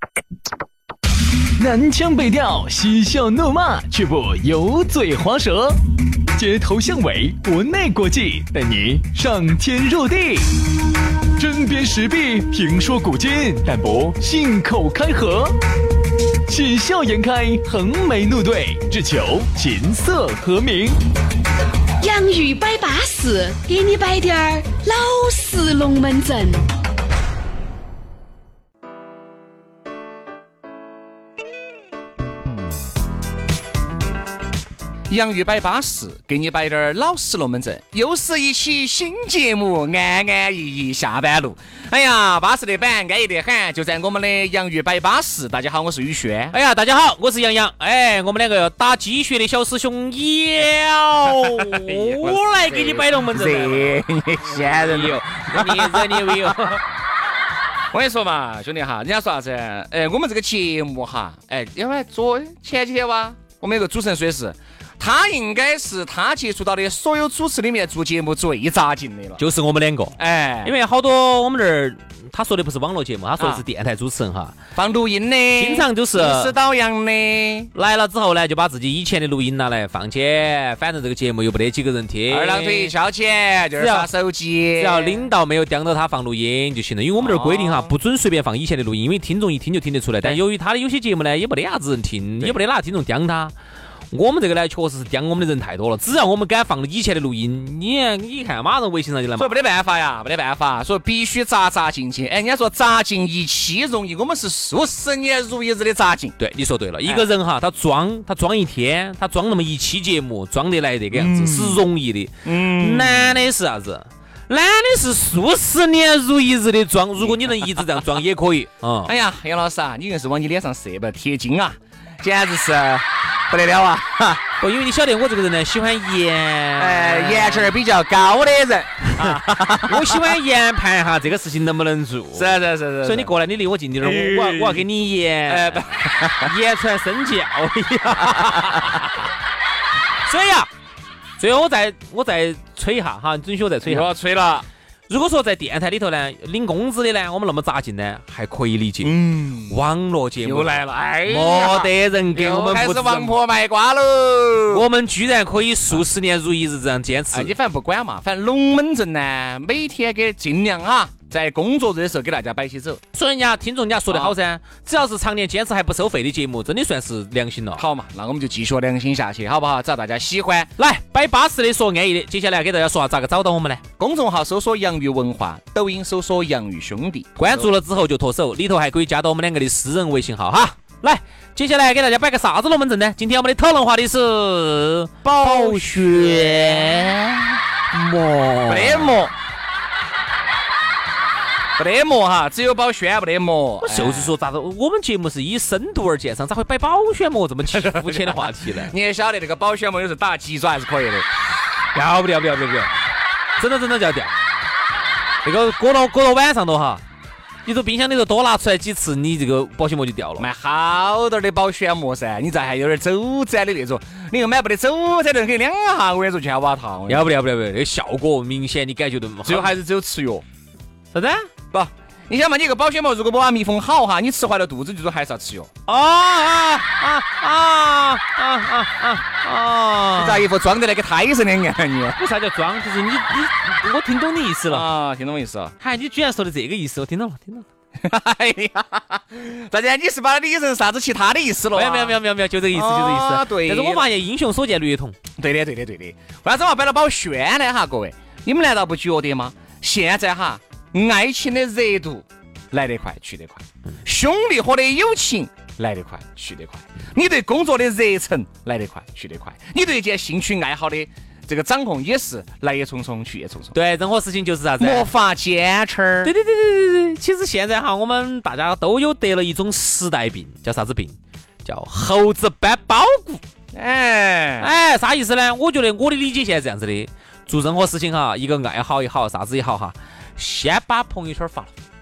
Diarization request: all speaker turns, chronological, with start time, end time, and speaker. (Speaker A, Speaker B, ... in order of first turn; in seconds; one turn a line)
Speaker A: 1.6-5.8
Speaker A: 6.3-10.7
Speaker A: 11.4-15.6
Speaker A: 16.5-21.0
Speaker B: 22.0-26.7
Speaker C: 35.1-46.5
Speaker D: 46.5-56.8
Speaker C: 51.6-56.7
Speaker C: 57.9-69.4
Speaker D: 69.4-74.6
Speaker C: 70.2-70.7
Speaker C: 74.8-77.7
Speaker D: 75.6-76.5
Speaker D: 77.7-82.9
Speaker C: 82.3-85.3
Speaker D: 83.8-84.1
Speaker D: 84.8-93.5
Speaker C: 87.2-88.0
Speaker D: 94.1-99.5
Speaker C: 99.4-106.4
Speaker D: 106.4-119.1
Speaker C: 107.0-107.3
Speaker C: 111.1-111.9
Speaker C: 112.4-113.4
Speaker C: 117.2-117.7
Speaker C: 119.0-124.4
Speaker D: 124.6-127.8
Speaker C: 126.8-130.2
Speaker D: 129.2-139.1
Speaker C: 132.3-133.3
Speaker C: 134.0-134.9
Speaker C: 135.5-136.5
Speaker D: 140.3-140.7
Speaker D: 141.4-144.1
Speaker C: 143.8-144.7
Speaker D: 145.1-149.2
Speaker C: 149.0-149.8
Speaker D: 149.7-153.4
Speaker C: 150.4-154.8
Speaker D: 154.7-157.5
Speaker C: 157.3-163.0
Speaker D: 163.1-167.8
Speaker C: 164.1-164.3
Speaker C: 167.8-170.7
Speaker D: 170.8-173.8
Speaker C: 174.0-177.7
Speaker D: 177.4-187.2
Speaker C: 185.2-187.6
Speaker D: 187.9-189.2
Speaker C: 188.7-189.3
Speaker C: 191.8-194.3
Speaker D: 193.8-198.9
Speaker C: 197.7-201.3
Speaker D: 201.9-202.9
Speaker D: 203.6-204.3
Speaker D: 205.4-207.0
Speaker D: 207.7-210.5
Speaker C: 210.4-217.3
Speaker D: 217.1-219.8
Speaker C: 219.4-220.4
Speaker D: 221.1-221.5
Speaker C: 221.7-225.7
Speaker D: 225.9-230.5
Speaker C: 230.2-232.2
Speaker D: 232.2-234.9
Speaker C: 234.7-235.8
Speaker D: 235.8-237.7
Speaker C: 238.0-242.2
Speaker D: 241.7-245.2
Speaker C: 242.7-244.1
Speaker C: 245.4-263.7
Speaker D: 263.7-265.1
Speaker C: 264.8-266.3
Speaker D: 266.2-273.4
Speaker C: 273.7-274.7
Speaker D: 274.6-281.7